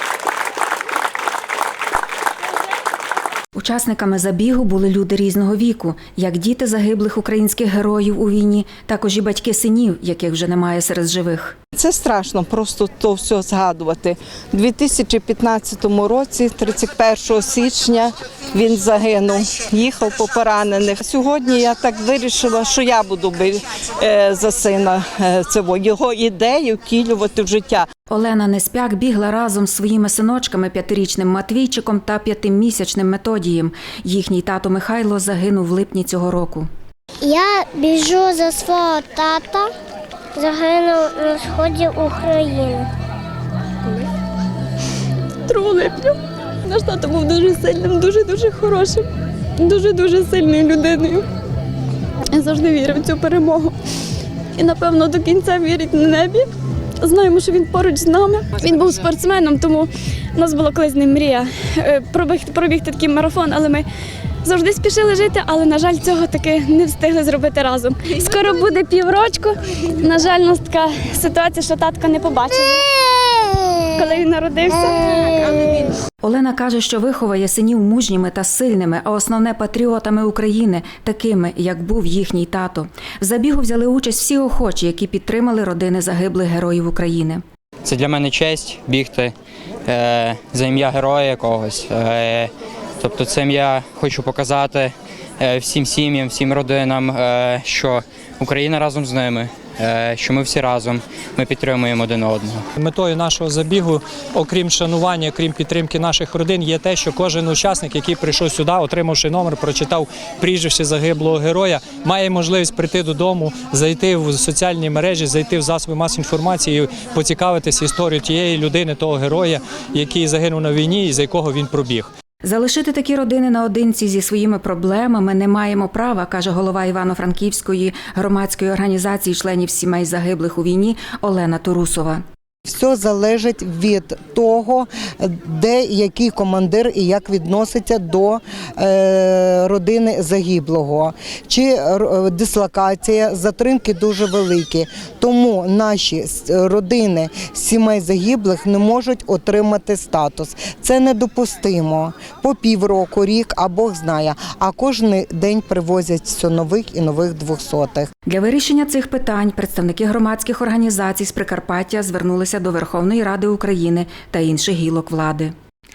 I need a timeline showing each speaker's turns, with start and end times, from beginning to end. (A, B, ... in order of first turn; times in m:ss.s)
0:03.5-0:11.5 A
0:11.8-0:27.8 B
0:28.1-0:36.7 A
0:37.2-0:39.7 C
0:40.4-0:42.8 C
0:45.5-0:49.0 D
0:49.6-0:51.2 D
0:52.3-0:53.7 D
0:54.6-1:03.8 D
1:04.4-1:12.8 D
1:14.0-1:15.6 D
1:16.2-1:27.4 A
1:27.8-1:29.3 E
1:29.8-1:42.6 E
1:42.8-2:02.1 F
2:02.4-2:12.2 A
2:12.6-2:38.1 G
2:38.2-2:45.5 A